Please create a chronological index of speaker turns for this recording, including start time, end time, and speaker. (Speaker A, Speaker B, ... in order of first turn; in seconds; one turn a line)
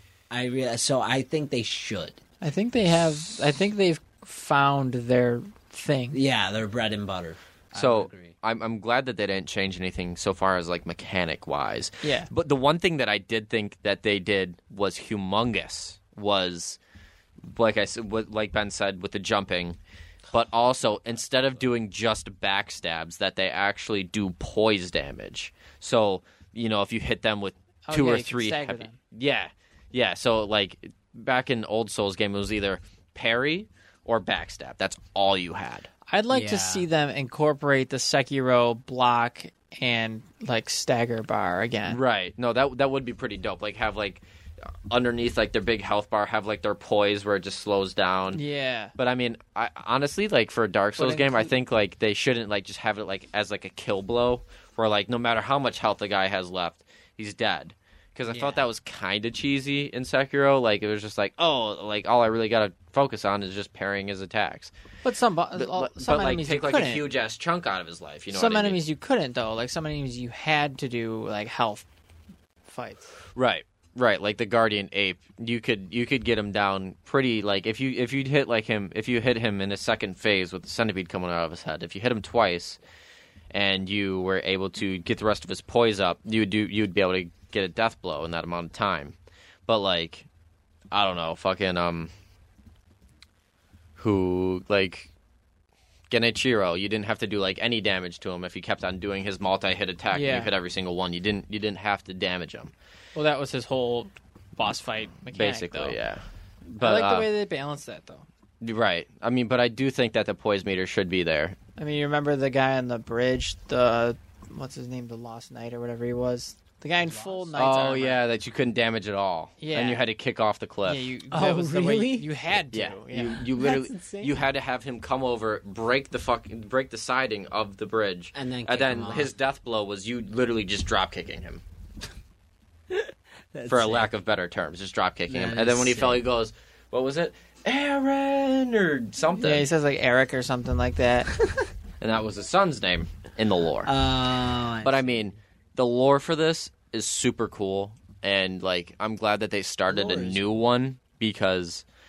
Speaker A: 0.3-2.2
Speaker B: 2.4-6.2
Speaker A: 6.1-8.3
Speaker C: 7.8-16.8
Speaker B: 12.0-12.3
Speaker C: 17.4-19.8
Speaker C: 20.3-35.9
Speaker B: 27.9-29.0
Speaker B: 36.1-42.0
Speaker A: 36.3-36.9
Speaker C: 41.9-48.4
Speaker B: 48.3-48.9
Speaker C: 49.0-64.7
Speaker B: 51.0-51.5
Speaker A: 58.3-58.6
Speaker B: 65.0-67.0
Speaker C: 65.6-68.8
Speaker B: 68.3-71.9
Speaker B: 72.7-73.1
Speaker C: 73.3-82.8
Speaker C: 83.5-89.2
Speaker C: 89.7-90.3
Speaker C: 90.9-92.1
Speaker C: 94.0-95.1
Speaker C: 96.1-102.7
Speaker B: 100.1-100.5
Speaker B: 103.2-106.0
Speaker C: 105.3-107.3
Speaker B: 106.8-108.3
Speaker C: 108.6-111.6
Speaker B: 111.8-118.2
Speaker A: 117.0-117.6
Speaker C: 117.5-121.1
Speaker B: 119.6-120.0
Speaker B: 120.9-123.5
Speaker A: 121.3-122.3
Speaker C: 122.7-131.6
Speaker A: 123.5-124.4
Speaker A: 128.3-129.3
Speaker A: 132.9-134.1
Speaker C: 133.7-139.7
Speaker A: 135.3-136.2
Speaker B: 139.4-141.3
Speaker C: 142.0-143.9
Speaker A: 143.8-145.1
Speaker C: 144.8-151.8
Speaker A: 149.9-150.4